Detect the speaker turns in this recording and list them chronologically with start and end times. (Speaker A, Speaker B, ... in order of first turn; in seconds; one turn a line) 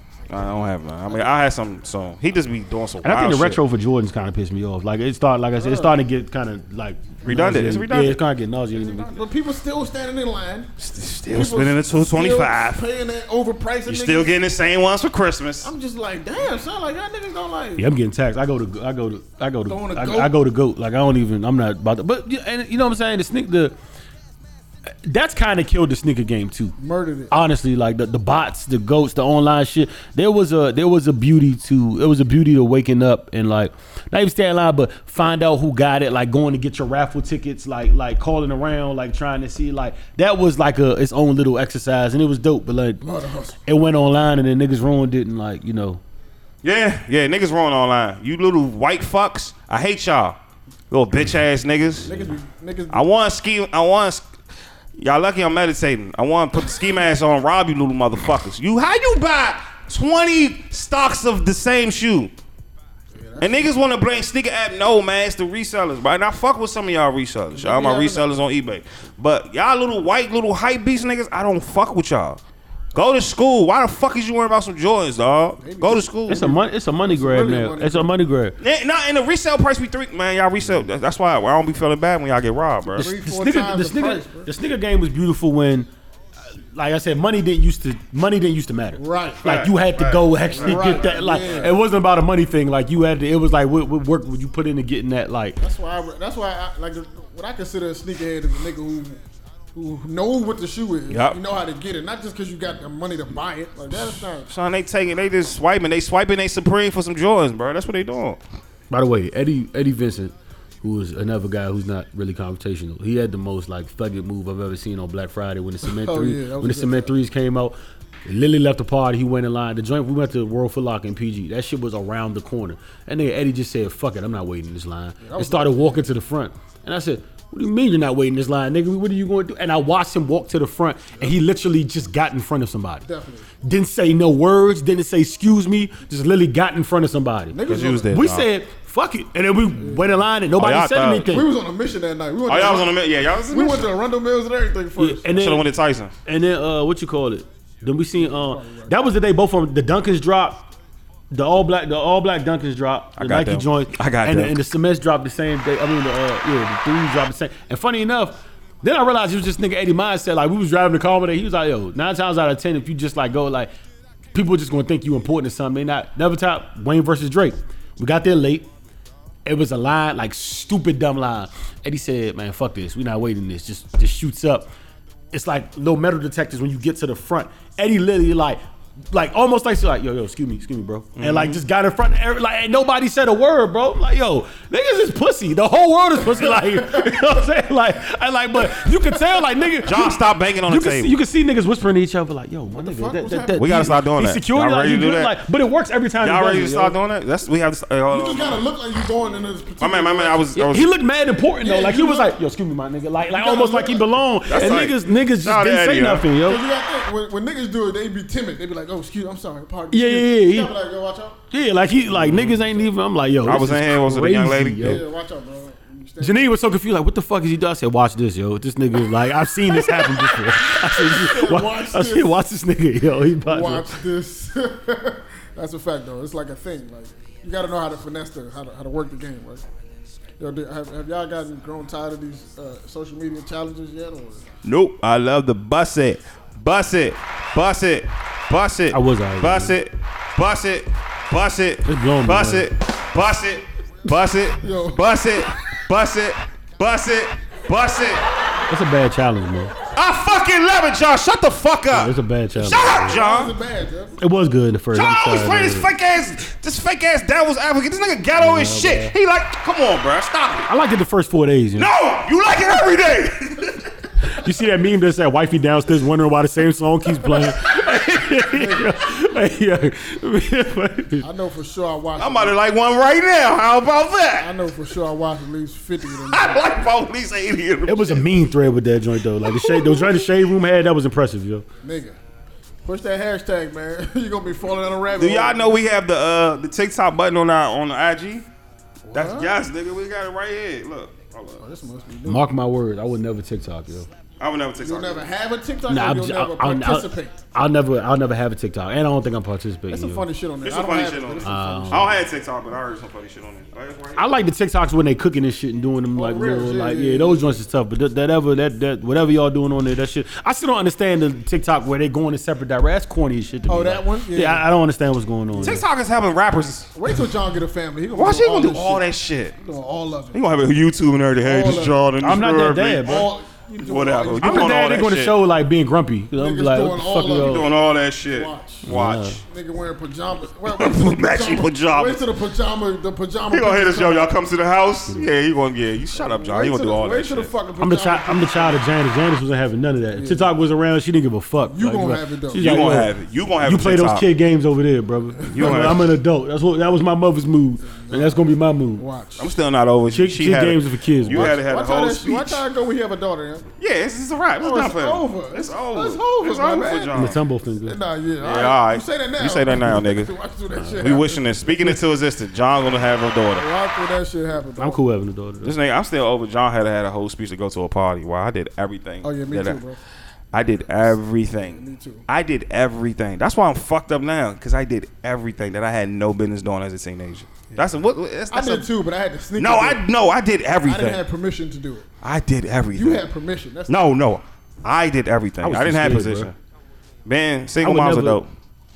Speaker A: 0.3-3.6
Speaker B: 3.0-9.1
Speaker C: 5.6-6.0
Speaker A: 7.2-8.2
Speaker C: 8.8-10.7
Speaker A: 10.8-12.8
Speaker C: 11.3-14.4
Speaker A: 13.9-15.7
Speaker C: 15.6-17.9
Speaker B: 17.8-23.8
Speaker C: 19.7-20.3
Speaker B: 25.1-26.7
Speaker C: 26.8-27.3
Speaker B: 27.3-43.0
Speaker C: 43.0-43.6
Speaker B: 43.7-46.0
Speaker A: 46.6-50.4
Speaker A: 50.9-52.2
Speaker C: 52.0-53.0
Speaker A: 52.9-54.3
Speaker A: 55.0-62.3
Speaker C: 63.1-63.8
Speaker A: 63.4-72.4
Speaker C: 67.5-68.3
Speaker A: 72.9-76.5
Speaker C: 75.6-78.1
Speaker B: 76.3-78.6
Speaker A: 78.6-83.1
Speaker C: 82.9-84.5
Speaker B: 83.0-85.9
Speaker B: 86.7-95.6
Speaker C: 89.0-89.5
Speaker A: 89.4-91.0
Speaker C: 90.5-91.7
Speaker C: 95.6-99.2
Speaker C: 99.8-104.5
Speaker A: 101.1-101.4
Speaker A: 104.5-108.4
Speaker B: 108.9-133.1
Speaker C: 115.8-117.1
Speaker C: 125.2-126.1
Speaker C: 133.1-133.5
Speaker B: 133.6-141.5
Speaker C: 137.5-138.2
Speaker A: 137.6-138.5
Speaker C: 139.8-140.2
Speaker A: 140.6-141.3
Speaker C: 141.2-145.4
Speaker A: 142.5-143.9
Speaker B: 145.0-145.7
Speaker A: 145.3-146.2
Speaker B: 146.2-150.7
Speaker C: 148.2-149.0
Speaker B: 151.3-163.7
Speaker A: 153.2-154.6
Speaker B: 164.3-168.7
Speaker B: 169.5-174.7
Speaker B: 175.3-178.6
Speaker B: 179.1-197.0
Speaker A: 181.2-181.6
Speaker C: 186.4-187.3
Speaker C: 188.6-189.5
Speaker A: 189.8-191.2
Speaker C: 192.7-193.9
Speaker A: 193.6-195.3
Speaker A: 196.2-198.7
Speaker C: 198.1-200.5
Speaker A: 199.8-200.9
Speaker B: 200.6-206.6
Speaker C: 201.6-202.3
Speaker C: 203.3-204.9
Speaker A: 204.5-206.3
Speaker C: 206.4-211.4
Speaker B: 209.9-210.7
Speaker B: 211.5-215.0
Speaker A: 212.1-212.6
Speaker A: 213.4-215.0
Speaker C: 214.8-216.5
Speaker B: 216.2-224.0
Speaker C: 219.7-222.4
Speaker C: 223.4-229.6
Speaker C: 230.4-234.4
Speaker A: 234.6-248.2
Speaker B: 238.9-239.8
Speaker B: 241.9-242.7
Speaker C: 244.6-245.1
Speaker B: 248.7-249.7
Speaker A: 249.9-253.5
Speaker B: 251.9-253.2
Speaker C: 252.8-254.2
Speaker B: 254.2-255.9
Speaker A: 254.9-260.7
Speaker B: 258.4-259.1
Speaker B: 260.7-261.9
Speaker A: 261.8-263.9
Speaker B: 264.3-271.3
Speaker C: 268.5-269.0
Speaker C: 271.2-272.6
Speaker A: 272.2-274.5
Speaker C: 274.4-276.7
Speaker A: 276.2-278.3
Speaker B: 277.9-281.7
Speaker A: 279.7-280.0
Speaker C: 281.8-282.2
Speaker C: 282.9-285.8
Speaker A: 285.1-288.5
Speaker C: 289.1-289.6
Speaker A: 289.1-291.6
Speaker C: 291.6-292.5
Speaker B: 292.3-294.1
Speaker A: 294.4-295.3
Speaker C: 294.8-297.4
Speaker B: 295.9-300.2
Speaker C: 299.9-302.3
Speaker A: 300.6-304.3
Speaker B: 301.4-302.1
Speaker B: 304.2-315.8
Speaker C: 306.1-307.6
Speaker C: 313.7-314.7
Speaker A: 315.6-316.9
Speaker C: 316.9-320.4
Speaker A: 318.1-319.6
Speaker A: 320.3-325.4
Speaker C: 321.4-322.0
Speaker B: 322.2-323.3
Speaker C: 323.0-324.9
Speaker B: 324.4-327.7
Speaker C: 326.4-334.3
Speaker A: 327.4-329.4
Speaker B: 328.8-329.4
Speaker A: 330.6-332.2
Speaker A: 333.5-337.5
Speaker C: 336.1-338.8
Speaker B: 337.8-349.0
Speaker C: 340.1-340.5
Speaker C: 341.7-342.8
Speaker A: 342.6-344.3
Speaker C: 345.4-346.0
Speaker A: 345.5-346.1
Speaker C: 347.8-348.5
Speaker C: 349.0-349.6
Speaker A: 349.4-352.6
Speaker B: 350.1-351.6
Speaker C: 351.3-353.7
Speaker A: 353.8-357.4
Speaker C: 354.6-362.0
Speaker B: 357.1-358.0
Speaker A: 358.4-360.3
Speaker B: 360.7-361.1
Speaker A: 361.0-363.7
Speaker C: 363.0-365.0
Speaker B: 364.8-365.8
Speaker A: 365.6-369.8
Speaker C: 369.2-370.0
Speaker A: 370.5-378.9
Speaker C: 370.9-372.2
Speaker C: 378.5-380.0
Speaker A: 379.6-381.2
Speaker C: 380.8-382.1
Speaker A: 382.2-383.2
Speaker C: 382.9-384.1
Speaker A: 383.9-386.6
Speaker B: 385.6-386.5
Speaker A: 387.2-388.5
Speaker B: 387.8-388.4